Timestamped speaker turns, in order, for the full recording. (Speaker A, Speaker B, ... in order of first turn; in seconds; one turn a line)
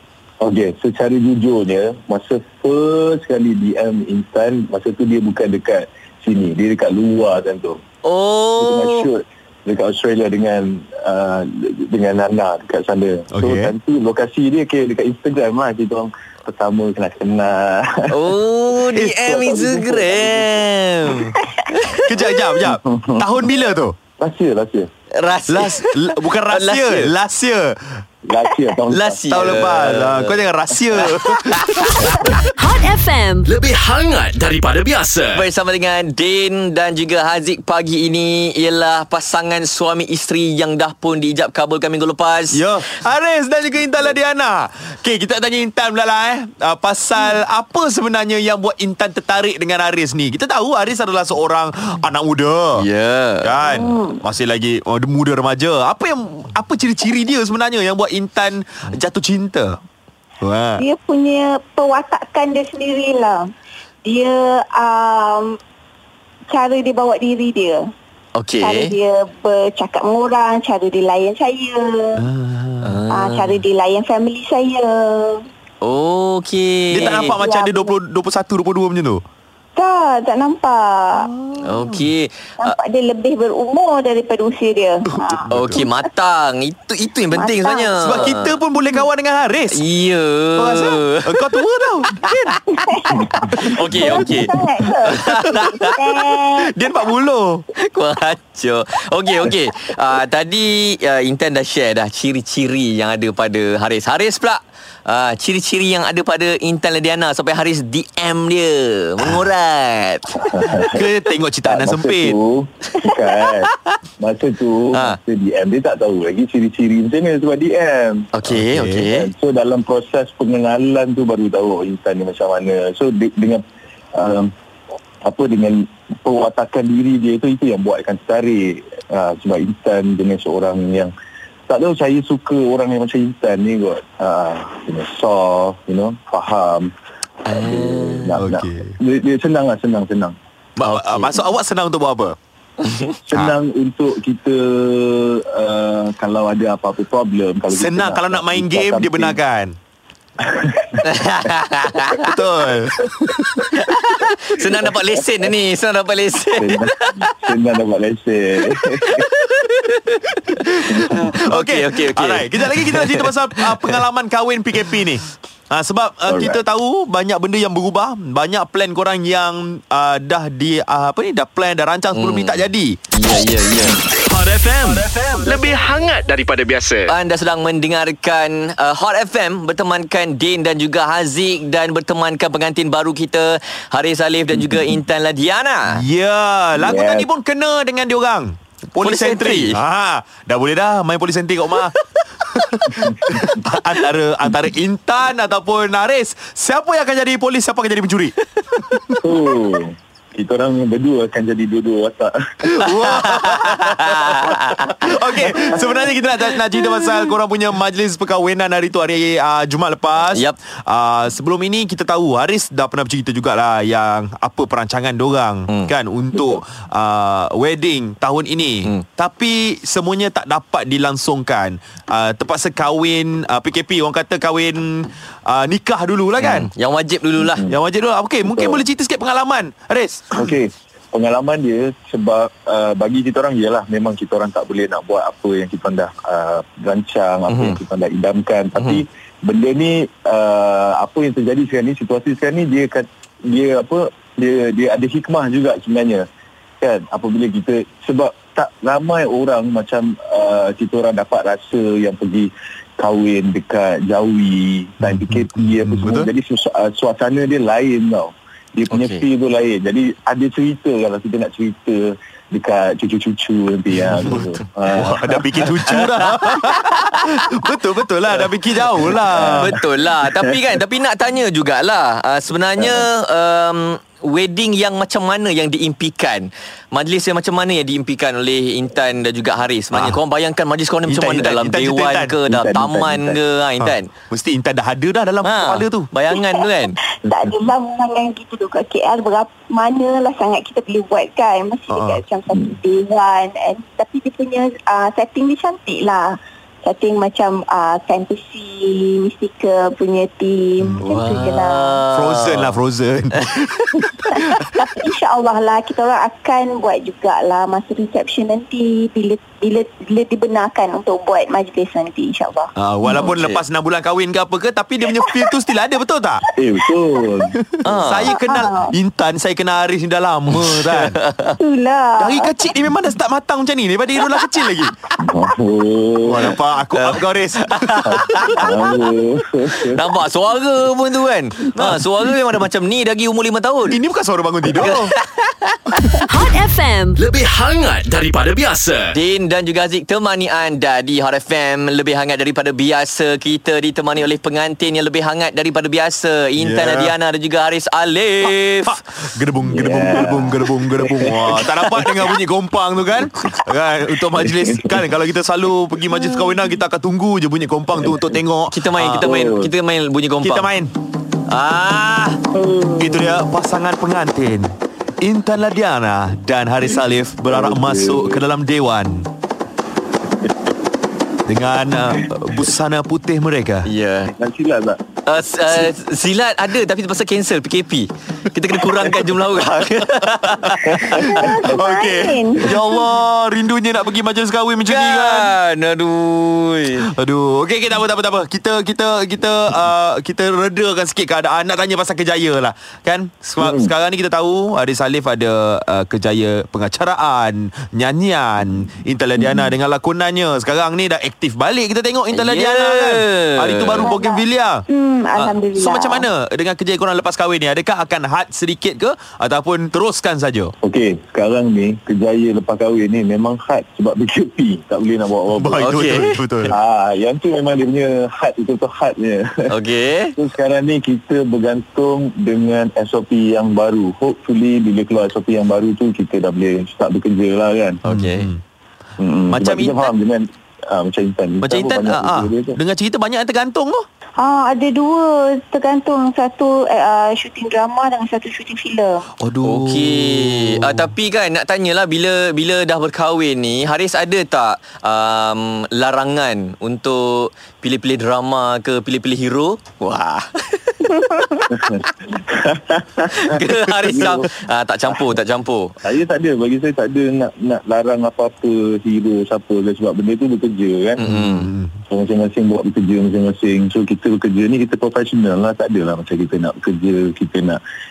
Speaker A: 0.4-7.8
Speaker B: 8.0-9.1
Speaker A: 8.6-18.4
Speaker C: 13.3-13.7
Speaker B: 18.1-22.2
Speaker A: 18.9-20.6
Speaker D: 21.1-21.6
Speaker C: 22.0-23.9
Speaker A: 22.6-23.3
Speaker A: 24.2-24.9
Speaker B: 25.1-27.1
Speaker C: 25.5-28.0
Speaker A: 28.2-29.5
Speaker B: 28.9-30.4
Speaker C: 29.3-32.3
Speaker B: 30.9-32.5
Speaker E: 32.5-33.5
Speaker F: 33.4-35.4
Speaker B: 35.3-42.7
Speaker C: 42.5-52.9
Speaker B: 52.8-53.5
Speaker C: 53.4-59.8
Speaker D: 53.6-54.2
Speaker C: 60.4-60.8
Speaker D: 60.8-63.5
Speaker D: 64.0-65.6
Speaker D: 66.5-67.9
Speaker B: 68.3-68.9
Speaker D: 68.6-72.2
Speaker C: 72.2-73.0
Speaker B: 72.8-73.6
Speaker D: 73.1-75.4
Speaker B: 75.8-77.4
Speaker C: 76.9-79.2
Speaker D: 77.0-77.9
Speaker D: 79.8-81.3
Speaker C: 81.2-82.0
Speaker B: 81.6-82.8
Speaker D: 82.6-85.5
Speaker C: 85.1-85.9
Speaker B: 85.5-88.6
Speaker D: 87.3-87.9
Speaker C: 88.0-89.8
Speaker B: 89.7-91.6
Speaker C: 90.6-92.6
Speaker B: 92.2-92.5
Speaker D: 92.8-96.7
Speaker B: 93.6-96.0
Speaker C: 94.0-94.5
Speaker C: 95.0-97.7
Speaker B: 97.8-110.8
Speaker A: 110.4-111.1
Speaker C: 110.9-112.3
Speaker A: 111.6-118.3
Speaker B: 113.0-113.9
Speaker B: 114.9-115.2
Speaker B: 118.3-119.3
Speaker C: 118.5-119.1
Speaker A: 119.1-123.6
Speaker A: 124.1-124.5
Speaker A: 125.2-131.1
Speaker A: 131.7-136.9
Speaker B: 137.4-138.4
Speaker A: 137.5-140.3
Speaker C: 138.4-138.9
Speaker C: 140.8-142.3
Speaker B: 140.8-141.4
Speaker B: 142.8-143.1
Speaker A: 143.2-149.4
Speaker C: 147.7-149.8
Speaker A: 150.4-151.0
Speaker B: 151.0-152.3
Speaker C: 152.2-153.8
Speaker B: 153.7-157.5
Speaker A: 156.6-159.2
Speaker B: 158.7-164.0
Speaker C: 160.5-173.0
Speaker A: 166.3-166.6
Speaker B: 172.1-172.6
Speaker B: 173.1-174.0
Speaker F: 174.1-177.1
Speaker B: 177.1-186.0
Speaker C: 185.9-199.3
Speaker A: 186.8-187.3
Speaker B: 189.0-189.8
Speaker A: 192.9-193.5
Speaker A: 199.2-202.5
Speaker C: 202.6-226.7
Speaker B: 202.8-205.7
Speaker B: 210.2-210.6
Speaker B: 226.4-227.7
Speaker A: 227.4-227.8
Speaker C: 227.7-230.5
Speaker A: 228.4-228.8
Speaker A: 230.3-246.2
Speaker B: 237.5-237.8
Speaker B: 238.8-239.0
Speaker A: 246.8-265.7
Speaker C: 255.0-256.3
Speaker B: 258.9-259.2
Speaker C: 264.2-269.8
Speaker B: 265.6-267.0
Speaker A: 269.3-269.7
Speaker B: 269.5-284.1
Speaker A: 272.8-273.1
Speaker C: 279.9-280.2
Speaker C: 281.1-282.4
Speaker A: 282.4-283.4
Speaker C: 283.8-286.1
Speaker B: 285.4-287.0
Speaker D: 286.3-286.6
Speaker D: 287.2-302.0
Speaker C: 291.9-292.2
Speaker C: 300.8-301.4
Speaker B: 301.0-302.8
Speaker C: 302.1-304.9
Speaker D: 304.3-312.7
Speaker C: 312.8-316.4
Speaker B: 313.1-313.6
Speaker A: 316.6-317.6
Speaker C: 317.6-321.2
Speaker B: 317.8-318.3
Speaker D: 318.2-318.9
Speaker B: 320.5-321.5
Speaker D: 321.6-322.6
Speaker C: 322.2-324.9
Speaker A: 325.2-326.5
Speaker C: 326.2-328.6
Speaker B: 326.5-329.1
Speaker A: 328.5-330.1
Speaker B: 329.8-334.0
Speaker C: 331.7-332.1
Speaker C: 333.9-335.1
Speaker B: 334.6-336.2
Speaker E: 336.3-337.2
Speaker F: 337.2-339.1
Speaker B: 339.1-349.0
Speaker C: 346.6-347.1
Speaker C: 348.4-359.3
Speaker A: 349.6-351.6
Speaker B: 351.6-352.3
Speaker A: 354.4-355.0
Speaker B: 358.7-360.7
Speaker A: 359.1-359.7
Speaker C: 360.4-360.9
Speaker B: 361.5-362.4
Speaker D: 362.5-363.2
Speaker C: 363.0-369.3
Speaker A: 367.4-368.4
Speaker C: 371.5-373.9
Speaker B: 373.8-374.3
Speaker A: 374.2-375.0
Speaker B: 375.2-381.4
Speaker C: 380.7-385.5
Speaker D: 381.2-382.7
Speaker B: 384.8-387.1
Speaker C: 387.0-404.8
Speaker A: 393.6-393.9
Speaker A: 399.4-399.7
Speaker B: 402.3-404.1
Speaker D: 404.0-406.3
Speaker C: 405.4-410.7
Speaker A: 410.8-416.0
Speaker C: 415.6-416.7
Speaker B: 415.8-416.5
Speaker A: 416.7-419.7
Speaker B: 419.7-420.3
Speaker A: 420.4-428.0
Speaker B: 428.0-428.5
Speaker C: 428.1-428.6
Speaker A: 429.2-432.8
Speaker C: 429.5-430.1
Speaker C: 431.6-434.0
Speaker D: 434.4-439.3
Speaker C: 439.4-441.1
Speaker B: 439.6-452.1
Speaker A: 451.7-454.5
Speaker B: 453.3-455.9
Speaker A: 456.0-461.2
Speaker B: 461.2-461.7
Speaker C: 461.2-461.9
Speaker A: 462.1-467.8